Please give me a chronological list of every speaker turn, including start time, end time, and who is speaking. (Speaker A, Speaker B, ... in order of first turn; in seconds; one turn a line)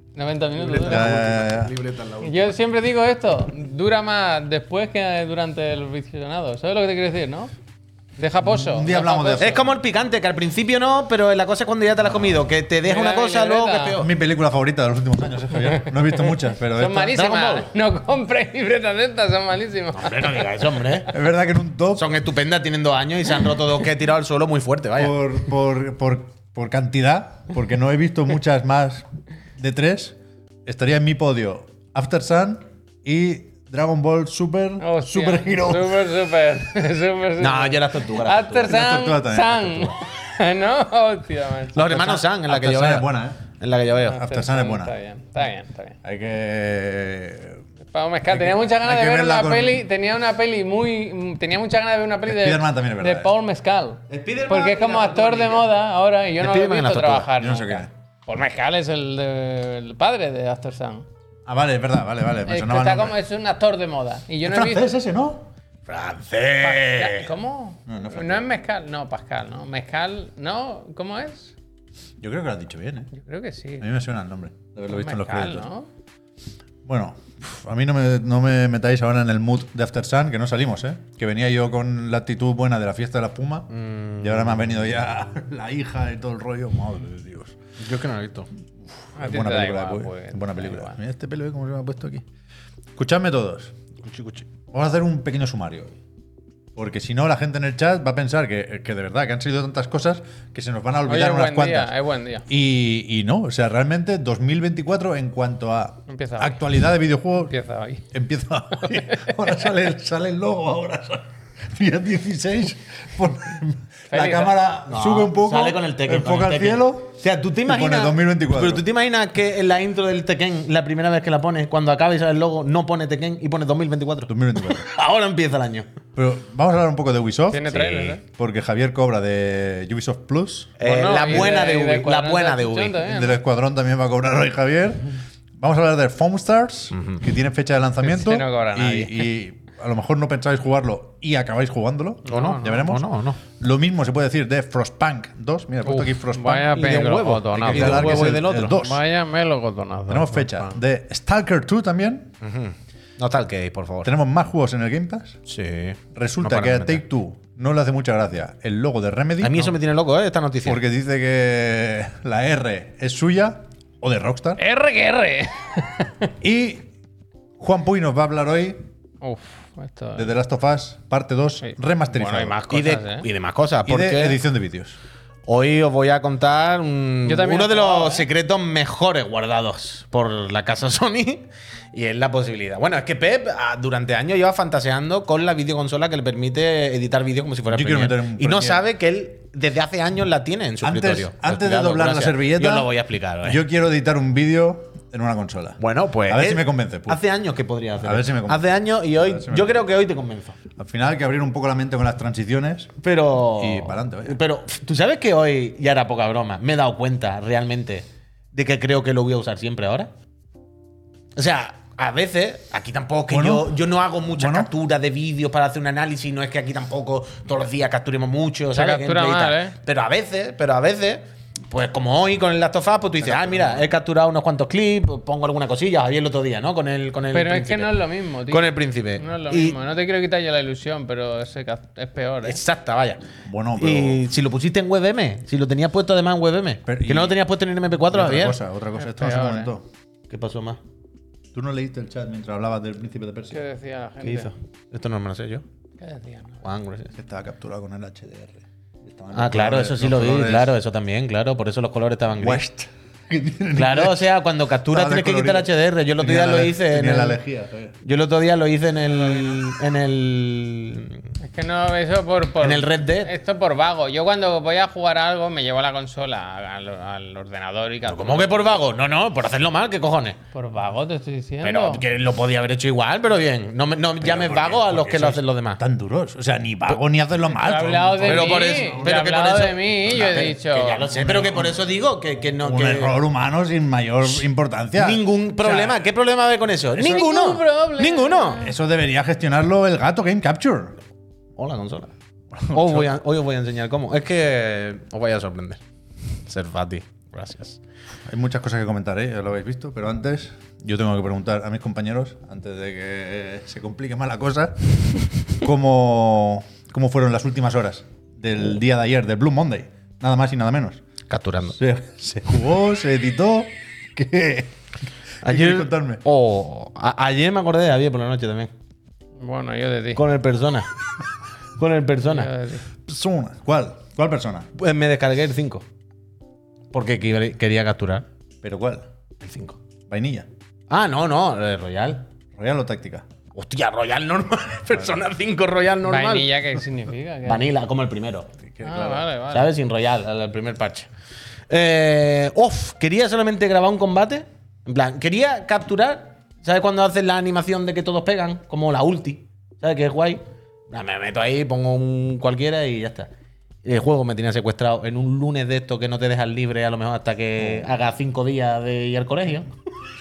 Speaker A: 0.1-1.2
Speaker B: 0.6-2.5
Speaker C: 0.9-1.8
Speaker A: 2.2-7.5
Speaker A: 8.2-9.6
Speaker C: 8.4-9.7
Speaker B: 9.4-14.1
Speaker A: 12.8-13.9
Speaker C: 13.9-17.1
Speaker A: 15.7-20.9
Speaker B: 17.1-17.7
Speaker B: 19.9-21.1
Speaker C: 21.1-22.1
Speaker B: 21.9-25.1
Speaker C: 25.0-36.1
Speaker A: 34.8-42.2
Speaker B: 37.4-38.8
Speaker C: 38.7-39.9
Speaker B: 41.7-43.1
Speaker C: 41.9-43.4
Speaker B: 43.6-44.2
Speaker C: 44.1-44.9
Speaker A: 44.1-46.0
Speaker C: 46.0-47.6
Speaker A: 47.9-61.1
Speaker C: 48.3-49.8
Speaker C: 52.2-53.3
Speaker B: 54.1-55.7
Speaker B: 56.4-57.3
Speaker C: 57.4-57.9
Speaker C: 61.5-63.2
Speaker A: 62.5-64.9
Speaker C: 64.4-65.5
Speaker B: 65.9-67.3
Speaker A: 66.6-71.5
Speaker C: 67.8-68.5
Speaker C: 72.2-73.1
Speaker A: 73.1-73.8
Speaker C: 73.8-75.7
Speaker A: 74.9-75.9
Speaker C: 76.8-87.6
Speaker B: 83.7-84.8
Speaker B: 87.8-88.5
Speaker C: 89.1-92.2
Speaker A: 89.2-91.0
Speaker C: 93.0-93.7
Speaker B: 94.0-94.4
Speaker C: 94.7-96.0
Speaker C: 96.8-101.9
Speaker A: 101.1-102.5
Speaker C: 102.5-107.5
Speaker A: 106.1-106.7
Speaker A: 107.4-108.0
Speaker C: 108.1-118.8
Speaker A: 108.8-109.4
Speaker A: 114.1-114.5
Speaker B: 114.9-125.9
Speaker C: 124.3-124.8
Speaker C: 126.2-130.8
Speaker A: 127.5-128.2
Speaker B: 127.7-128.2
Speaker B: 130.8-133.0
Speaker A: 130.8-133.4
Speaker C: 133.0-146.7
Speaker B: 136.9-137.2
Speaker A: 138.0-139.3
Speaker A: 142.3-142.7
Speaker B: 142.3-143.4
Speaker A: 145.8-150.8
Speaker B: 146.7-148.8
Speaker C: 147.5-149.0
Speaker C: 150.1-152.3
Speaker B: 152.4-154.1
Speaker C: 154.0-155.4
Speaker B: 155.5-157.0
Speaker C: 156.1-159.7
Speaker B: 159.4-160.8
Speaker C: 160.6-164.6
Speaker A: 164.6-166.3
Speaker C: 166.4-166.9
Speaker C: 167.6-168.8
Speaker A: 169.2-170.3
Speaker C: 170.1-172.6
Speaker A: 171.6-173.3
Speaker B: 172.7-174.4
Speaker C: 173.8-175.0
Speaker B: 175.5-193.6
Speaker A: 177.2-178.3
Speaker C: 187.7-188.8
Speaker C: 190.8-192.9
Speaker C: 193.4-197.2
Speaker B: 195.8-200.6
Speaker C: 198.0-199.8
Speaker C: 200.8-203.0
Speaker B: 203.0-210.1
Speaker C: 203.5-204.4
Speaker B: 211.3-229.8
Speaker C: 213.3-213.8
Speaker C: 214.3-214.7
Speaker A: 218.7-219.7
Speaker C: 223.2-223.8
Speaker A: 227.3-232.6
Speaker B: 232.4-233.2
Speaker C: 233.4-234.2
Speaker B: 233.8-238.6
Speaker C: 236.9-237.4
Speaker C: 238.1-239.8
Speaker A: 239.0-239.7
Speaker B: 240.3-240.8
Speaker C: 241.5-243.6
Speaker A: 243.5-244.5
Speaker B: 244.2-245.6
Speaker A: 246.0-246.6
Speaker B: 246.6-247.1
Speaker C: 247.1-250.7
Speaker B: 249.3-252.6
Speaker C: 252.4-254.3
Speaker B: 253.8-257.4
Speaker C: 254.9-257.9
Speaker B: 258.0-261.2
Speaker A: 261.4-268.7
Speaker B: 262.6-263.3
Speaker B: 268.1-270.4
Speaker A: 270.5-272.0
Speaker B: 271.6-275.8
Speaker C: 274.2-279.2
Speaker A: 277.5-281.0
Speaker B: 278.2-283.2
Speaker C: 280.1-280.5
Speaker C: 281.1-281.8
Speaker C: 282.6-286.1
Speaker B: 284.2-288.6
Speaker C: 286.9-287.3
Speaker A: 287.0-288.7
Speaker C: 288.6-290.9
Speaker B: 291.6-292.1
Speaker C: 292.5-293.1
Speaker B: 292.7-295.8
Speaker B: 296.5-297.8
Speaker C: 298.3-304.9
Speaker C: 305.5-311.0
Speaker B: 311.3-311.8
Speaker C: 311.7-314.8
Speaker C: 315.4-316.2
Speaker B: 315.4-318.7
Speaker A: 319.4-320.2
Speaker B: 320.1-320.9
Speaker B: 321.8-322.5
Speaker A: 322.2-322.8
Speaker C: 323.1-324.7
Speaker B: 324.8-325.8
Speaker B: 326.9-328.2
Speaker C: 328.6-329.1
Speaker B: 329.4-329.8
Speaker C: 330.1-330.5
Speaker B: 330.9-332.3
Speaker C: 332.5-333.2
Speaker B: 333.5-336.5
Speaker C: 334.9-335.2
Speaker A: 336.1-337.6
Speaker B: 337.5-338.5
Speaker C: 338.6-339.2
Speaker A: 338.8-339.7
Speaker B: 339.5-341.1
Speaker B: 341.7-353.3
Speaker B: 353.8-359.7